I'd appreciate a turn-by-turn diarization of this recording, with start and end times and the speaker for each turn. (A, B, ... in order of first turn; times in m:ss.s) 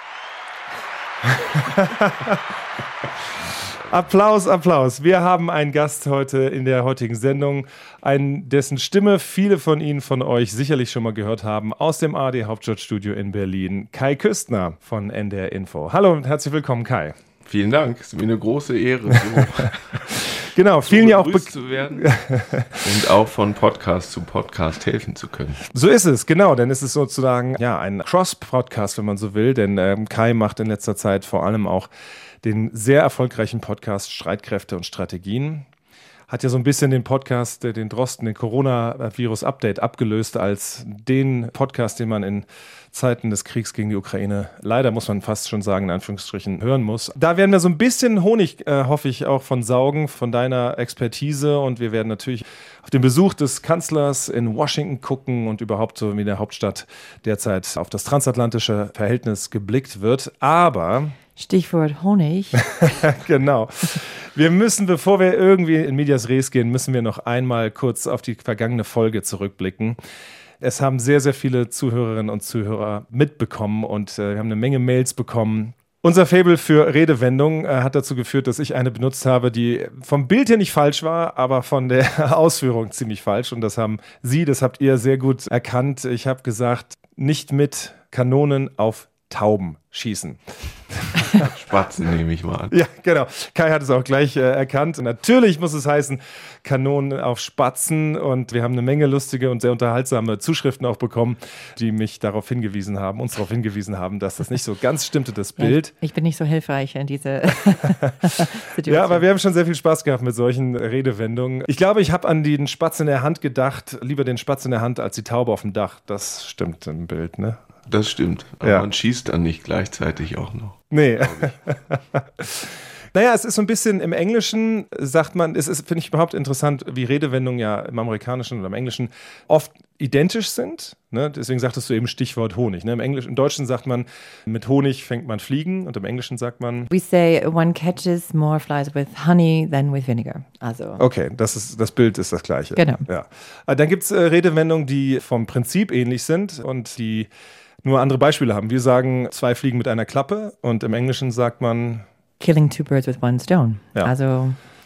0:01.2-0:02.4 A
0:03.7-0:17.2 A
0:17.4-0:22.1 B
0:19.1-0:22.9 A
0:22.7-0:25.6 B
0:25.7-0:31.9 A
0:32.4-0:35.7 A
0:36.3-1:01.1 A
1:01.4-1:02.6 C
1:02.7-1:10.0 A
1:10.6-1:30.4 A
1:30.9-1:31.5 A
1:31.2-1:32.8 B
1:32.7-1:45.9 A
1:45.6-1:49.2 C
1:48.8-1:57.6 A
1:57.9-2:01.6 B
2:00.9-2:16.9 A
2:16.9-2:21.0 C
2:21.0-2:27.3 A
2:22.8-2:23.0 C
2:27.8-2:32.0 A
2:32.4-2:34.6 C